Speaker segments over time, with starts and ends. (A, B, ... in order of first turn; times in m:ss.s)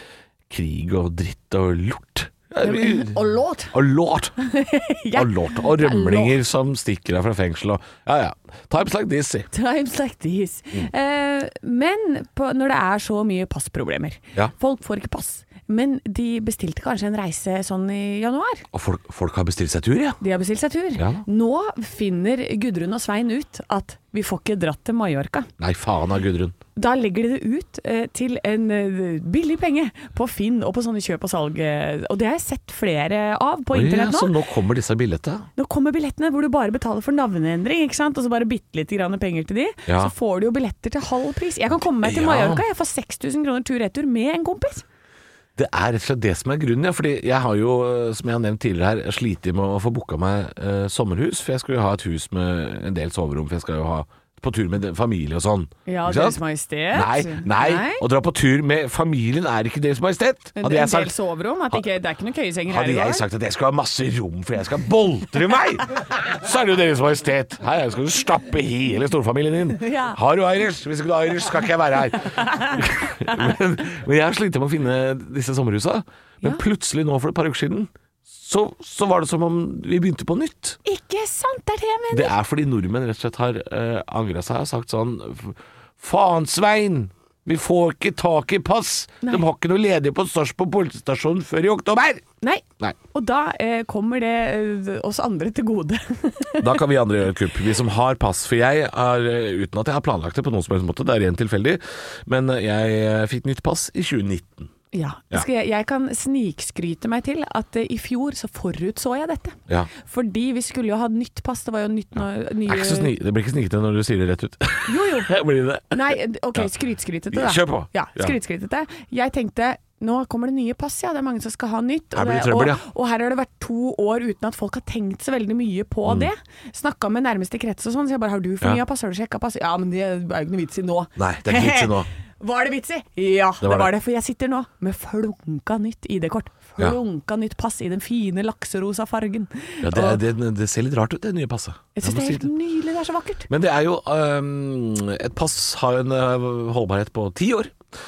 0:00.5-0:03.2 A
0:02.6-0:03.7 B
0:03.7-0:04.4 A
0:04.4-0:06.4 B
0:05.1-0:09.5 A
0:09.5-0:18.6 B
0:18.7-0:20.2 A
0:20.2-0:25.5 B
0:21.0-0:21.2 A
0:25.6-0:26.6 A
0:26.8-0:34.3 B
0:33.7-0:35.5 A
0:35.6-0:44.8 B
0:39.9-0:40.1 A
0:42.0-0:42.6 A
0:45.6-0:56.4 A
0:55.9-0:58.0 B
0:56.9-1:01.1 A
1:00.6-1:03.3 B
1:02.7-1:20.8 A
1:09.8-1:10.2 B
1:12.4-1:12.8 B
1:20.8-1:22.3 B
1:22.1-1:32.2 A
1:32.4-1:36.8 B
1:36.6-1:44.7 A
1:44.9-1:53.1 B
1:52.7-1:56.7 A
1:54.9-1:55.3 B
1:55.9-2:20.2 B
1:57.3-1:58.4 A
2:02.1-2:02.8 A
2:11.2-2:12.1 A
2:13.6-2:13.9 A
2:19.8-2:22.5 A
2:21.9-2:23.5 B
2:23.5-2:27.8 A